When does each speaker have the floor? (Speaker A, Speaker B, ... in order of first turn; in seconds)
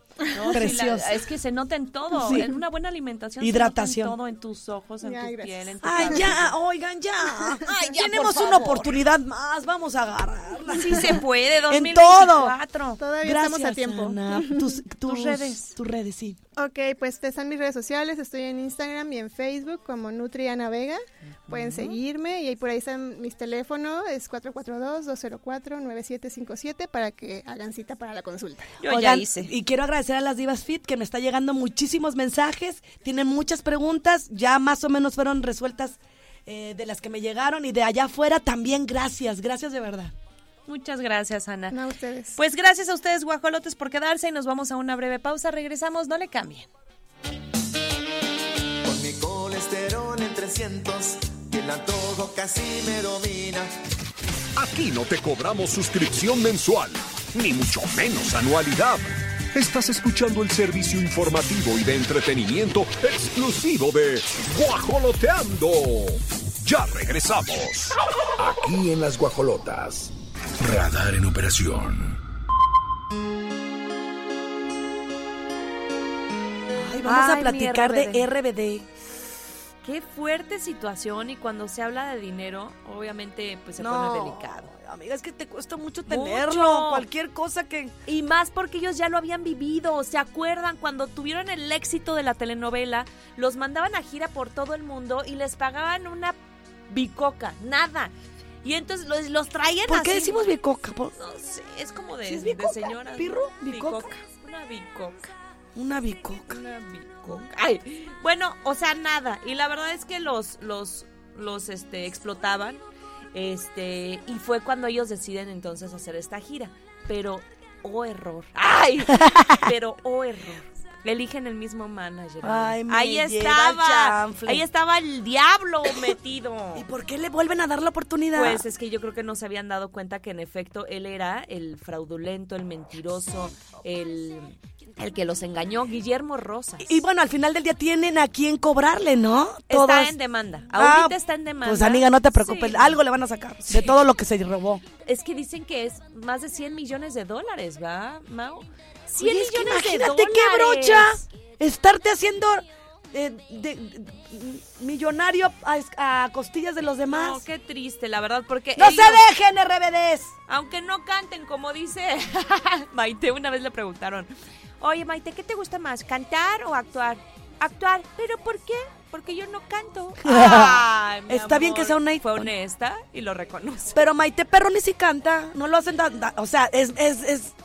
Speaker A: 0.3-6.5, 7.6-9.0, 10.7-13.0, 15.1-15.8, 21.5-22.0, 28.8-29.5, 40.7-41.8, 42.4-46.7, 77.0-78.2, 79.8-84.7, 86.1-87.0, 88.1-96.4, 96.9-100.6, 101.2-105.3, 106.5-112.8, 113.3-126.8, 128.3-137.0, 139.7-143.0, 143.7-143.9, 145.1-151.2, 157.1-159.2, 160.5-174.0
Speaker B: 0.5-1.2, 2.1-2.5, 3.4-4.2, 5.8-12.6, 13.2-16.4, 28.9-40.1, 76.7-78.9, 83.8-88.0, 99.9-101.2, 102.3-104.1, 105.8-106.6, 119.2-119.6, 122.4-124.6, 126.8-128.6, 136.8-140.2, 140.8-144.8, 149.2-157.4, 158.8-160.4, 170.2-172.5, 174.0-177.6
Speaker C: 5.0-6.2, 13.0-14.4, 16.6-28.7, 41.7-42.4
Speaker D: 48.8-53.7
Speaker E: 54.6-68.0
Speaker F: 68.4-72.2